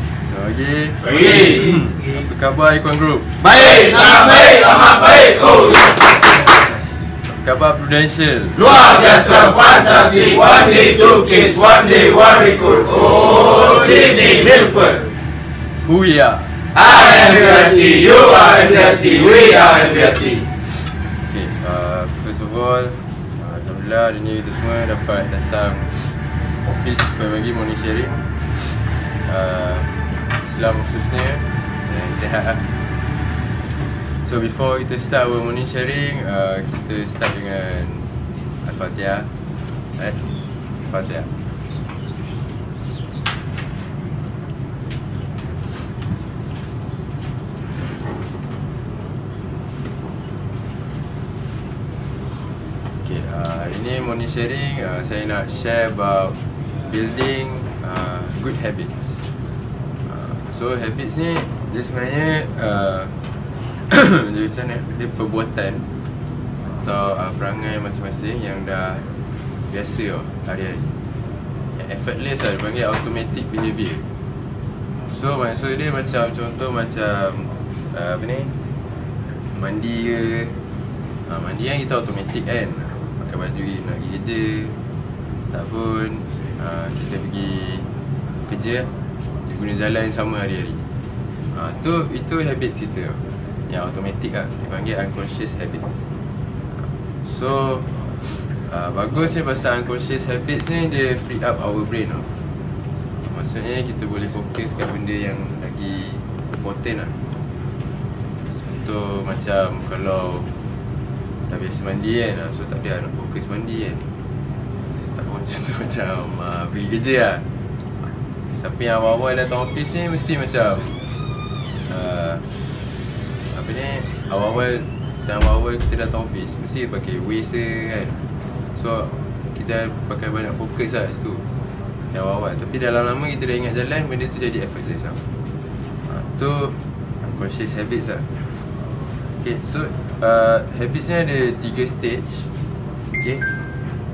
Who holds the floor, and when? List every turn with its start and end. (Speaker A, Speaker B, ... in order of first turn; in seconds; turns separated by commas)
Speaker A: 0.2-3.3, Speaker B: 1.2-1.6, Speaker B: 3.4-5.9, Speaker A: 7.2-8.7, Speaker B: 8.6-15.0, Speaker A: 15.8-16.5, Speaker B: 16.8-20.4, Speaker A: 21.3-28.3, Speaker A: 29.2-32.7, Speaker A: 33.7-38.1, Speaker A: 38.6-39.3, Speaker A: 40.0-40.2, Speaker A: 40.8-41.3, Speaker A: 53.0-59.2, Speaker A: 60.0-63.1, Speaker A: 63.9-65.9, Speaker A: 66.7-71.0, Speaker A: 71.8-74.1, Speaker A: 75.1-78.6, Speaker A: 79.5-80.6, Speaker A: 81.3-84.8, Speaker A: 85.5-87.9, Speaker A: 88.5-88.9, Speaker A: 89.4-90.9, Speaker A: 91.5-96.0, Speaker A: 97.2-97.9, Speaker A: 98.6-102.3, Speaker A: 103.2-107.2, Speaker A: 108.7-110.5, Speaker A: 111.5-114.1, Speaker A: 115.2-117.4, Speaker A: 118.0-121.0, Speaker A: 121.9-122.5, Speaker A: 123.5-128.2, Speaker A: 128.8-131.4, Speaker A: 132.1-135.2, Speaker A: 136.1-138.3, Speaker A: 139.4-142.5, Speaker A: 143.1-143.4